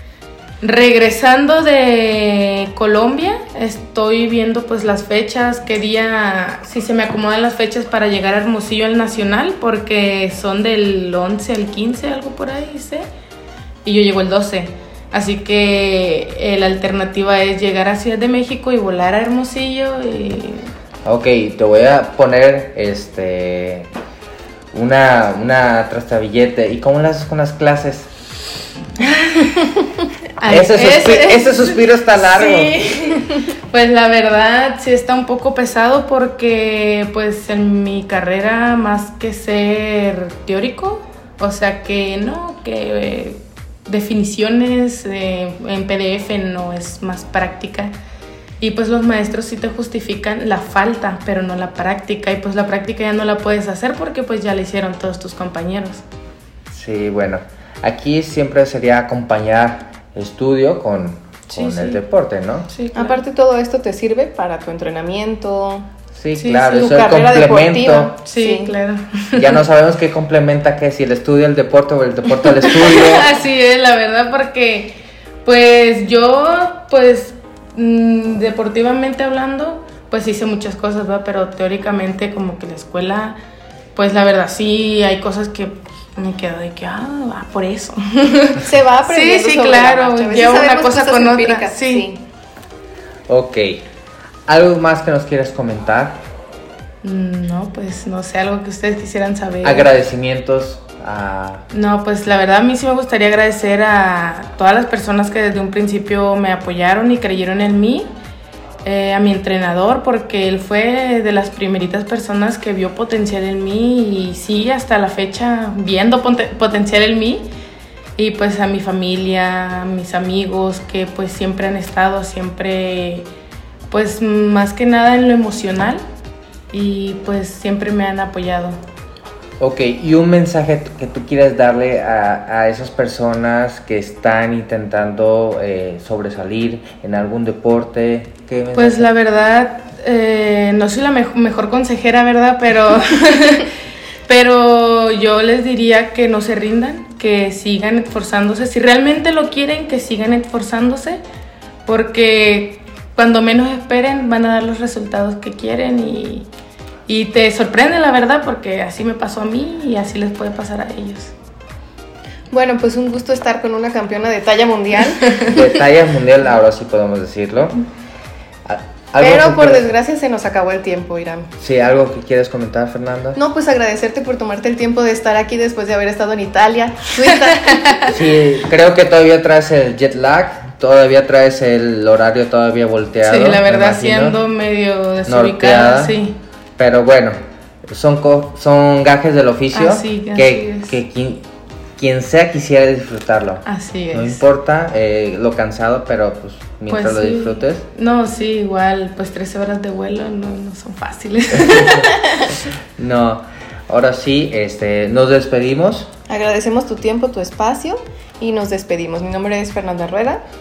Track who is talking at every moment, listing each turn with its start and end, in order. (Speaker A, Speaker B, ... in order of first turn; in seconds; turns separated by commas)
Speaker A: 0.6-13.1, Speaker A: 13.8-20.7, Speaker B: 21.0-23.9, Speaker B: 24.7-28.1, Speaker A: 29.0-47.9, Speaker B: 30.5-32.8, Speaker A: 48.6-56.0, Speaker B: 56.7-62.7, Speaker A: 61.5-62.0, Speaker A: 62.7-63.2, Speaker C: 62.9-65.9, Speaker B: 66.1-68.1, Speaker A: 66.4-66.9, Speaker C: 66.7-68.7, Speaker A: 68.2-69.6, Speaker B: 69.3-73.3, Speaker A: 72.5-83.4, Speaker A: 83.9-92.0, Speaker C: 88.6-92.2, Speaker B: 93.3-93.8, Speaker B: 94.5-96.2, Speaker A: 97.0-99.9, Speaker B: 99.6-101.6, Speaker A: 101.7-108.1, Speaker A: 108.8-117.5, Speaker A: 118.2-123.3, Speaker A: 123.9-126.0, Speaker A: 126.7-128.8, Speaker B: 129.6-139.1, Speaker A: 138.7-143.7, Speaker A: 144.3-151.2, Speaker A: 151.8-156.5, Speaker A: 157.1-161.3, Speaker C: 162.5-165.5, Speaker B: 165.5-167.8, Speaker B: 168.6-169.9, Speaker C: 169.2-171.5, Speaker B: 171.6-173.4, Speaker C: 173.3-178.2, Speaker A: 177.3-178.1, Speaker B: 178.1-184.4, Speaker A: 183.2-186.4, Speaker B: 185.2-186.2, Speaker B: 186.8-191.4, Speaker A: 189.7-190.9, Speaker B: 192.0-197.8, Speaker A: 193.6-194.4, Speaker A: 196.9-202.1, Speaker B: 201.6-202.1, Speaker B: 203.0-206.1, Speaker C: 206.3-210.4